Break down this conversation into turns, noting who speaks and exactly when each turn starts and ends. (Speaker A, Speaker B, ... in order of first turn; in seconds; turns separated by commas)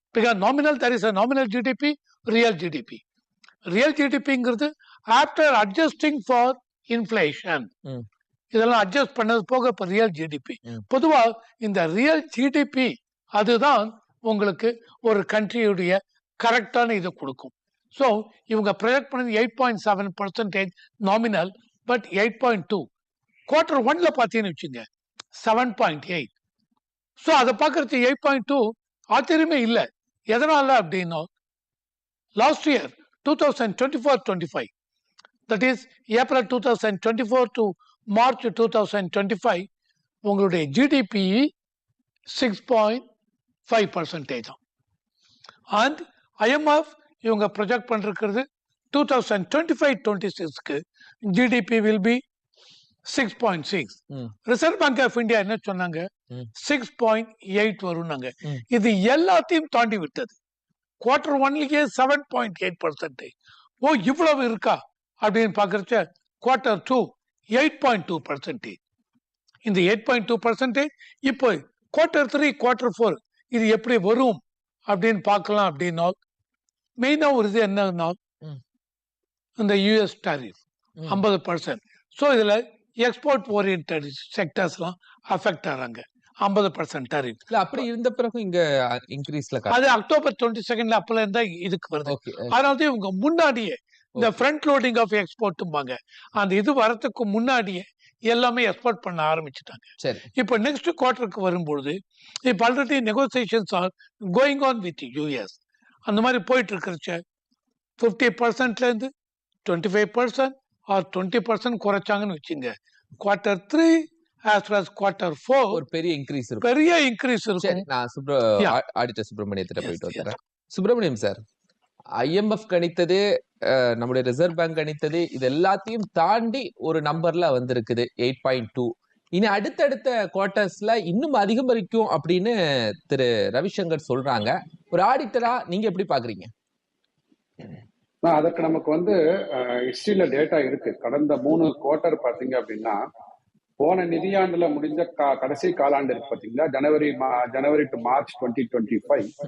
Speaker A: 0.1-3.0, Speaker A: 3.7-7.7, Speaker A: 8.5-22.9, Speaker A: 23.5-26.3, Speaker A: 27.2-31.3, Speaker A: 32.4-34.7, Speaker A: 35.5-39.7, Speaker A: 40.2-41.5, Speaker A: 42.3-43.0, Speaker A: 43.7-44.6, Speaker A: 45.7-52.2, Speaker A: 53.0-60.4, Speaker A: 61.0-68.8, Speaker A: 69.7-76.2, Speaker A: 77.0-78.2, Speaker A: 79.6-87.5, Speaker B: 87.5-89.9, Speaker A: 89.7-107.2, Speaker B: 92.1-92.5, Speaker B: 94.2-94.5, Speaker B: 100.0-100.3, Speaker A: 108.0-109.1, Speaker A: 109.7-115.8, Speaker B: 115.7-116.7, Speaker A: 116.6-117.8, Speaker B: 117.6-121.4, Speaker A: 119.8-120.3, Speaker B: 122.2-136.5, Speaker C: 138.2-143.0, Speaker C: 143.8-149.3